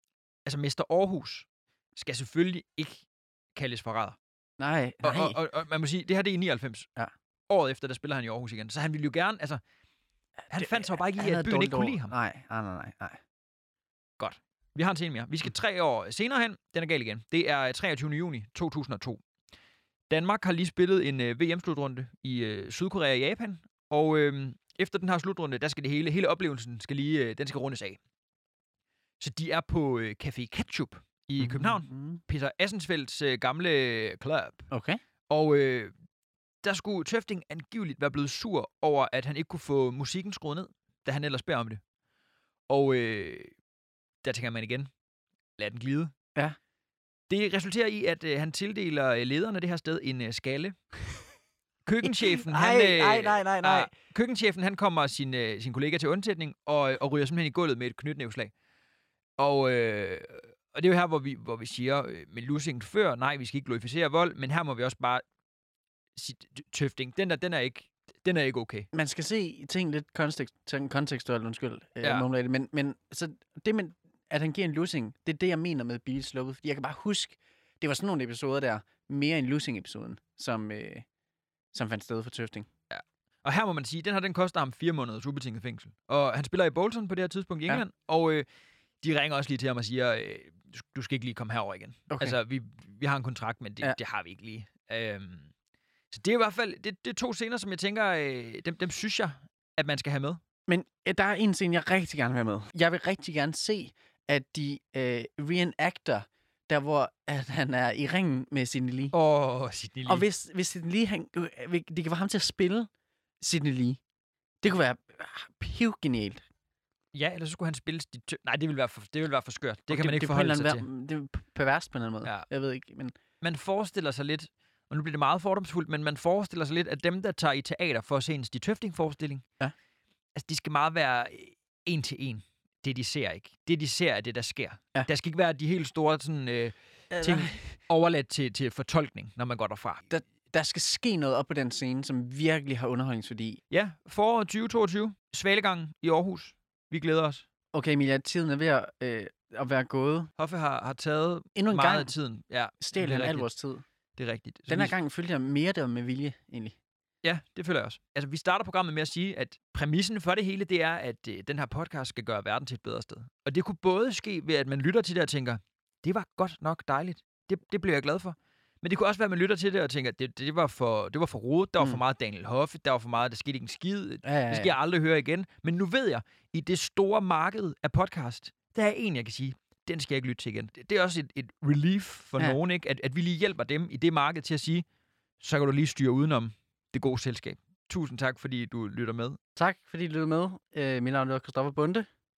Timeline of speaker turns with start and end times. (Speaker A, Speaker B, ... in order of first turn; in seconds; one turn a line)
Speaker A: 0.5-4.2
Speaker B: 4.6-5.4
Speaker A: 5.0-6.9
Speaker A: 7.5-9.6
Speaker A: 10.5-12.1
Speaker B: 10.5-13.2
Speaker A: 14.2-19.2
Speaker A: 20.1-28.0
Speaker A: 29.2-34.7
Speaker B: 31.4-32.2
Speaker B: 34.7-35.0
Speaker A: 35.3-35.9
Speaker A: 36.6-41.8
Speaker A: 42.7-43.5
Speaker A: 44.2-44.9
Speaker A: 45.6-46.1
Speaker A: 47.3-50.8
Speaker A: 51.9-58.5
Speaker B: 52.0-53.9
Speaker A: 59.4-65.2
Speaker A: 66.2-68.9
Speaker B: 68.9-81.0
Speaker A: 72.0-72.3
Speaker B: 81.7-82.7
Speaker A: 82.9-88.5
Speaker A: 89.0-95.5
Speaker B: 92.1-92.4
Speaker A: 96.1-100.4
Speaker B: 100.7-109.1
Speaker A: 109.1-110.3
Speaker B: 110.1-112.9
Speaker B: 113.4-114.0
Speaker B: 114.6-116.4
Speaker A: 117.1-120.8
Speaker B: 119.9-123.2
Speaker A: 123.4-129.4
Speaker A: 130.4-140.1
Speaker B: 137.1-137.8
Speaker B: 140.1-143.6
Speaker A: 143.7-147.5
Speaker B: 147.7-150.3
Speaker A: 150.4-153.5
Speaker B: 151.6-152.1
Speaker B: 152.8-153.8
Speaker A: 154.2-154.9
Speaker B: 154.7-156.8
Speaker A: 157.2-184.8
Speaker B: 174.2-174.8
Speaker A: 185.4-189.4
Speaker B: 189.6-192.1